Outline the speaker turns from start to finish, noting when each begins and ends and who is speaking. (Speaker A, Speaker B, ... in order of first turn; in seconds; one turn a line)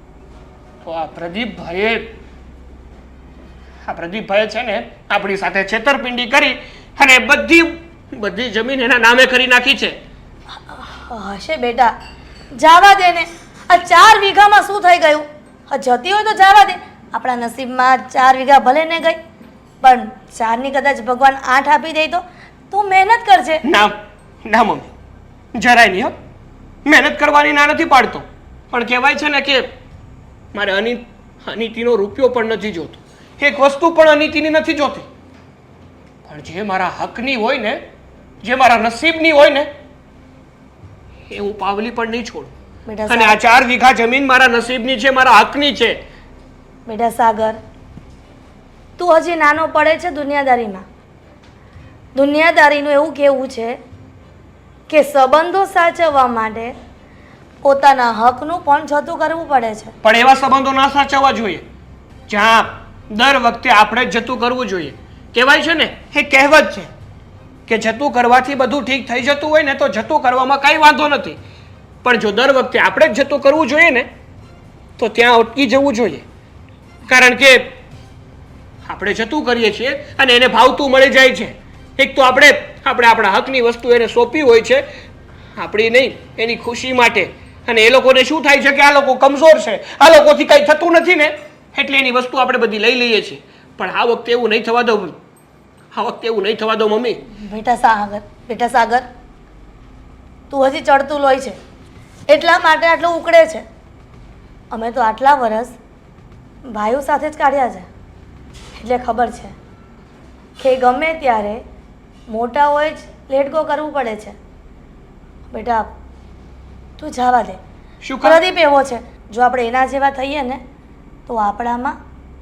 Speaker A: 0.8-2.1
Speaker A: 3.8-10.0
Speaker B: 10.7-11.9
Speaker B: 12.6-19.2
Speaker B: 19.8-23.6
Speaker A: 23.6-23.9
Speaker A: 24.4-24.9
Speaker A: 25.5-26.1
Speaker A: 26.9-29.7
Speaker A: 30.5-35.1
Speaker A: 36.2-37.8
Speaker A: 38.4-39.7
Speaker A: 41.3-42.5
Speaker B: 42.9-43.4
Speaker A: 43.1-46.0
Speaker B: 46.9-47.6
Speaker B: 49.0-50.8
Speaker B: 52.1-53.8
Speaker B: 54.9-56.7
Speaker B: 57.6-59.9
Speaker A: 60.0-61.6
Speaker A: 62.3-66.9
Speaker A: 67.7-71.4
Speaker A: 72.0-74.1
Speaker A: 75.0-76.2
Speaker A: 77.1-77.6
Speaker A: 78.8-84.8
Speaker A: 85.5-95.2
Speaker A: 95.9-97.2
Speaker B: 97.4-99.0
Speaker B: 100.5-101.6
Speaker B: 102.3-103.6
Speaker B: 104.7-105.7
Speaker B: 106.7-107.8
Speaker B: 108.8-109.5
Speaker B: 110.6-111.6
Speaker B: 112.3-114.3
Speaker B: 115.5-115.9
Speaker B: 117.0-117.6
Speaker A: 118.0-118.4
Speaker B: 118.2-120.6
Speaker B: 121.3-122.0